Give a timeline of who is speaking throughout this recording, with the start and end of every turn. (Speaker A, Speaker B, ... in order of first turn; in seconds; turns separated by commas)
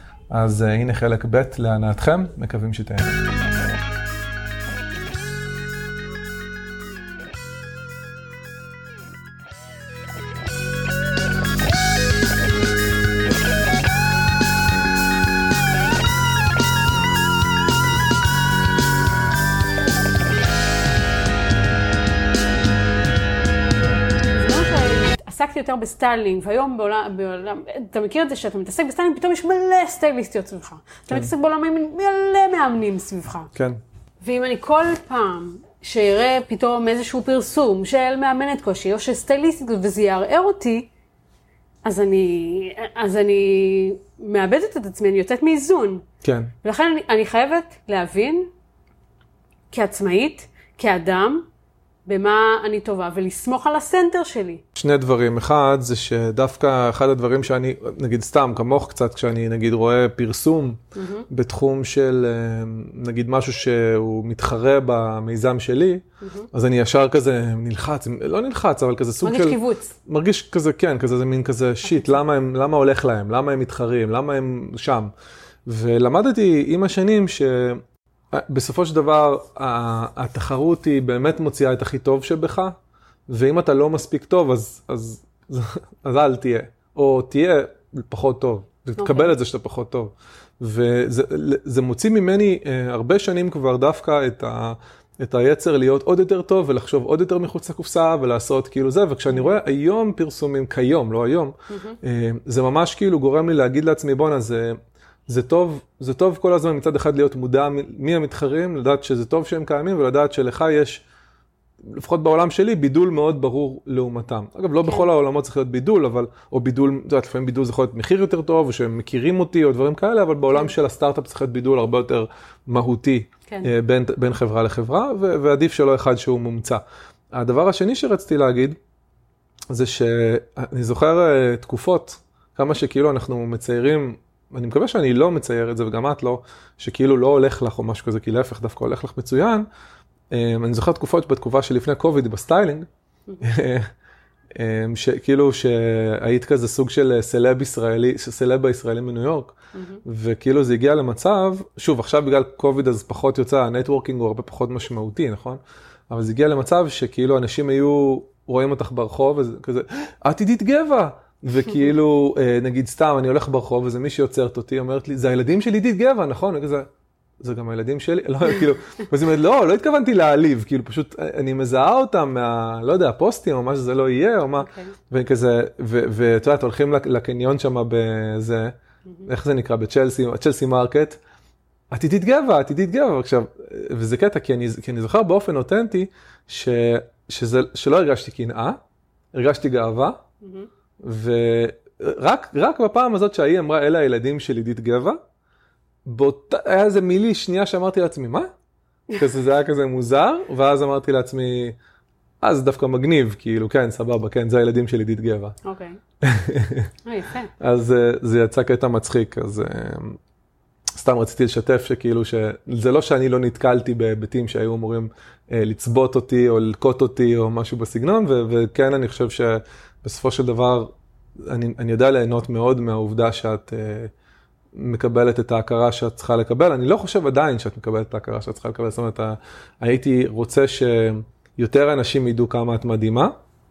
Speaker A: 0.3-3.2, Speaker B: 24.3-33.5, Speaker A: 33.5-33.8, Speaker B: 34.2-40.9, Speaker B: 41.8-46.0, Speaker A: 46.2-46.5, Speaker B: 46.6-48.5, Speaker B: 49.7-51.5, Speaker B: 52.1-54.6, Speaker A: 54.8-75.1, Speaker B: 61.0-61.3, Speaker B: 66.2-66.5, Speaker B: 69.2-70.0, Speaker A: 75.7-77.8, Speaker A: 78.3-82.8, Speaker A: 83.3-104.8, Speaker B: 89.0-89.4, Speaker B: 99.3-99.6, Speaker B: 101.7-102.0, Speaker A: 105.3-111.0, Speaker A: 111.9-126.8, Speaker A: 127.3-128.8, Speaker A: 129.7-139.7, Speaker A: 140.3-142.9, Speaker A: 143.4-143.9, Speaker A: 144.6-149.5, Speaker B: 149.7-150.0, Speaker A: 150.1-166.9, Speaker A: 167.4-178.8, Speaker B: 174.6-174.9, Speaker A: 179.3-181.2, Speaker A: 181.9-188.8, Speaker A: 189.3-190.2, Speaker B: 190.4-190.7, Speaker A: 191.0-195.2, Speaker A: 196.1-198.5, Speaker A: 199.1-201.8, Speaker A: 202.4-205.6, Speaker B: 205.6-206.0, Speaker A: 206.2-206.9, Speaker B: 207.1-207.5, Speaker A: 207.6-210.2, Speaker A: 211.0-220.9, Speaker A: 221.5-224.1, Speaker A: 224.8-233.3